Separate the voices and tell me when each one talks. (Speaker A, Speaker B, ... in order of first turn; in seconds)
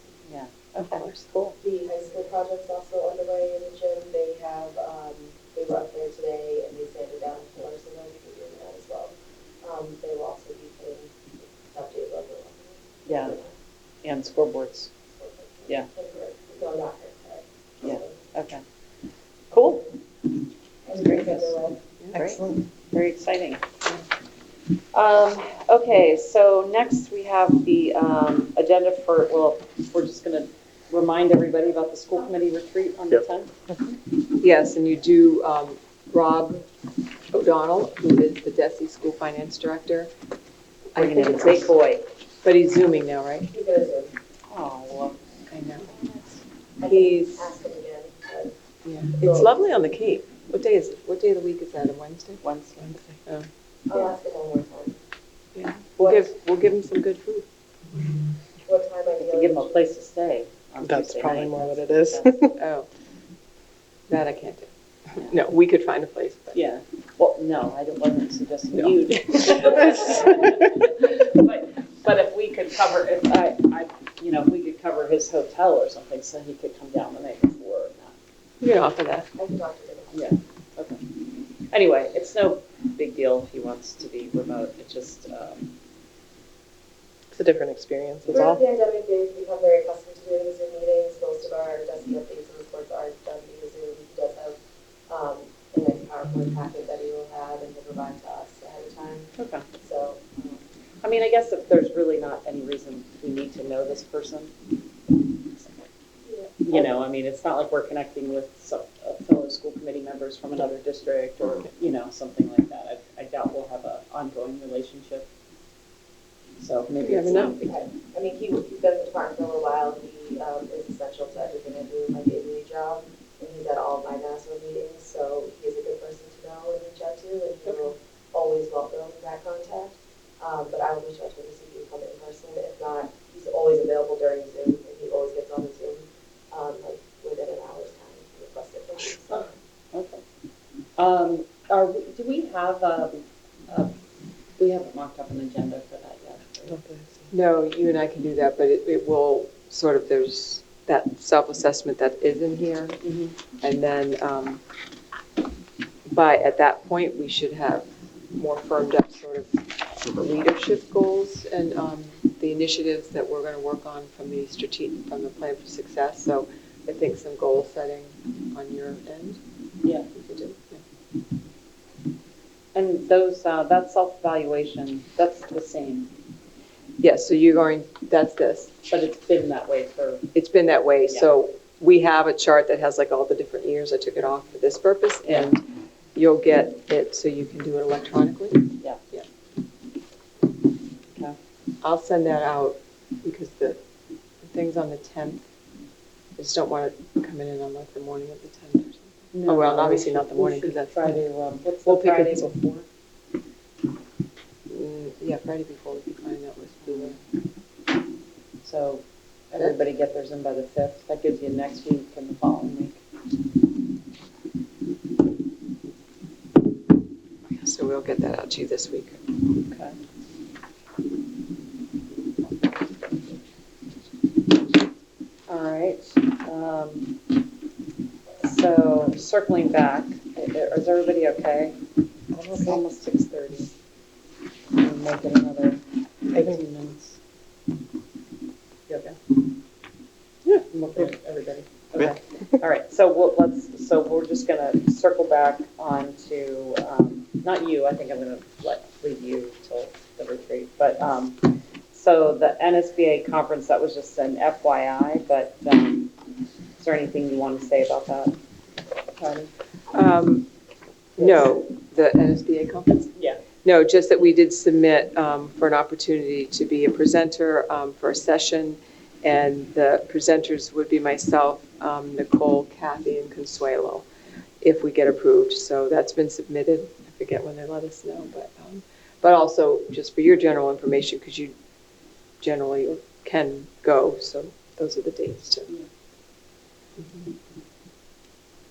Speaker A: 0.2-1.6, 13.1-13.4, 14.0-14.9, 17.8-18.6, 19.5-19.9, 20.9-21.5, 22.1-23.6, 24.9-33.5, 41.0-42.0, 44.5-45.1, 52.4-52.9, 59.2-62.4, 66.5-78.1, 80.1-81.0, 81.7-85.7, 99.4-99.6, 101.0-104.5, 105.5-105.9, 106.7-115.3, 116.6-117.9, 139.3-140.2, 141.0-143.9, 144.6-146.8, 153.0-153.3, 172.7-176.1, 178.9-180.3, 185.2-185.5, 199.3-202.8, 208.6-213.0, 219.7-219.9, 225.5-227.1, 228.4-231.8, 232.5-233.7, 234.8-235.8, 236.3-237.2, 238.9-239.2, 240.5-256.1, 256.8-258.4
Speaker B: 0.8-1.2, 34.4-36.6, 37.3-40.1, 40.9-41.7, 42.4-43.5, 45.5-45.9, 46.8-47.5, 48.8-52.4, 55.5-57.5, 62.6-62.9, 64.1-66.6, 69.8-70.3, 78.6-79.3, 117.0-117.5, 147.3-153.0, 153.6-154.6, 156.1-159.5, 160.1-169.4, 170.1-170.8, 177.0-178.7, 180.3-185.6, 186.2-189.2, 191.8-193.8, 194.4-195.4, 196.4-201.2, 201.8-202.5, 204.7-207.2, 217.5-219.2, 259.2-260.4, 261.2-263.1, 263.6-274.1, 274.6-281.5, 282.4-285.7
Speaker C: 1.6-13.5, 15.2-18.2, 20.9-21.8, 43.5-44.1, 46.8-48.5, 49.2-49.7, 53.9-55.0, 58.6-59.8, 79.3-80.3, 88.2-94.6, 95.1-100.7, 117.7-139.5
Speaker D: 22.1-22.6, 52.9-53.2, 60.8-62.6, 87.3-88.6, 146.7-147.3, 232.4-232.8